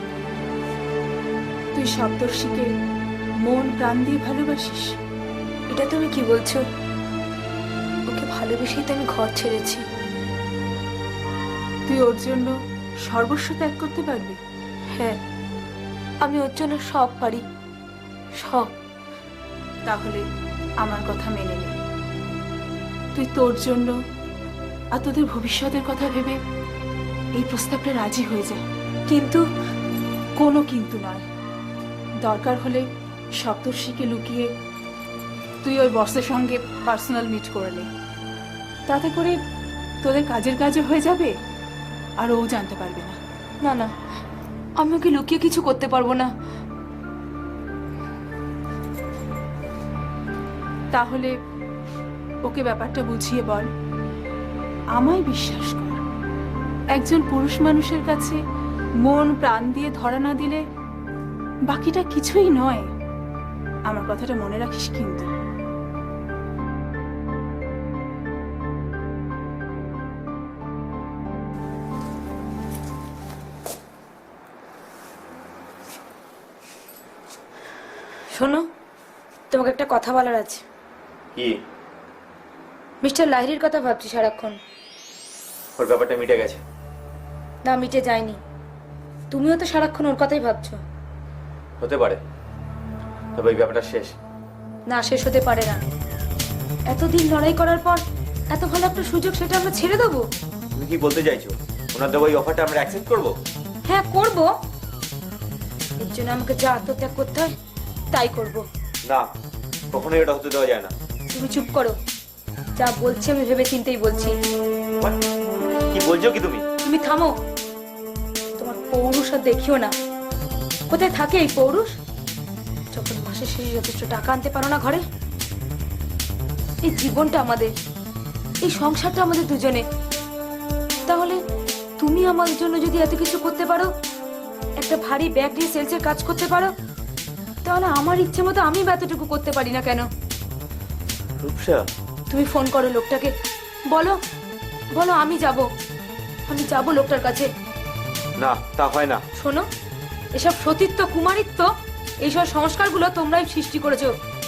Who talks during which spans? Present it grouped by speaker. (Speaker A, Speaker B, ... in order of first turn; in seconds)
Speaker A: 1.7-2.7, 3.4-5.0, 11.8-14.4, 19.8-20.2, 20.8-21.8, 23.1-23.9, 24.9-26.4, 27.3-28.6, 30.4-31.2, 32.2-34.5, 35.6-37.9, 38.9-39.4, 40.0-41.3, 42.2-43.2, 50.9-51.3, 52.4-53.7, 54.9-56.0, 56.9-58.4, 59.0-60.6, 61.6-62.9, 63.9-65.3
Speaker B: 5.7-6.6, 8.1-9.8, 14.9-15.2, 16.2-17.4, 18.4-18.7, 29.1-29.4, 43.6-43.9, 44.8-46.3, 78.3-78.7, 79.5-80.6, 83.0-84.6, 87.6-88.4, 89.3-90.8, 94.9-95.8, 96.9-100.2, 103.8-104.5, 106.0-107.5, 108.1-108.6, 111.3-112.0, 112.8-114.3, 116.8-117.3, 118.6-119.9, 120.9-121.9, 122.9-125.0, 126.8-127.7, 128.6-129.8, 131.1-131.4, 132.0-133.9, 134.8-136.7, 137.6-140.1, 142.3-143.3, 143.9-144.2, 144.9-145.7, 146.5-147.5, 149.4-149.7, 150.3-151.7, 152.2-154.1
Speaker C: 85.8-86.6, 91.8-92.2, 93.3-94.1, 100.7-103.3, 109.9-110.9, 115.9-116.6, 141.4-141.8, 148.4-149.2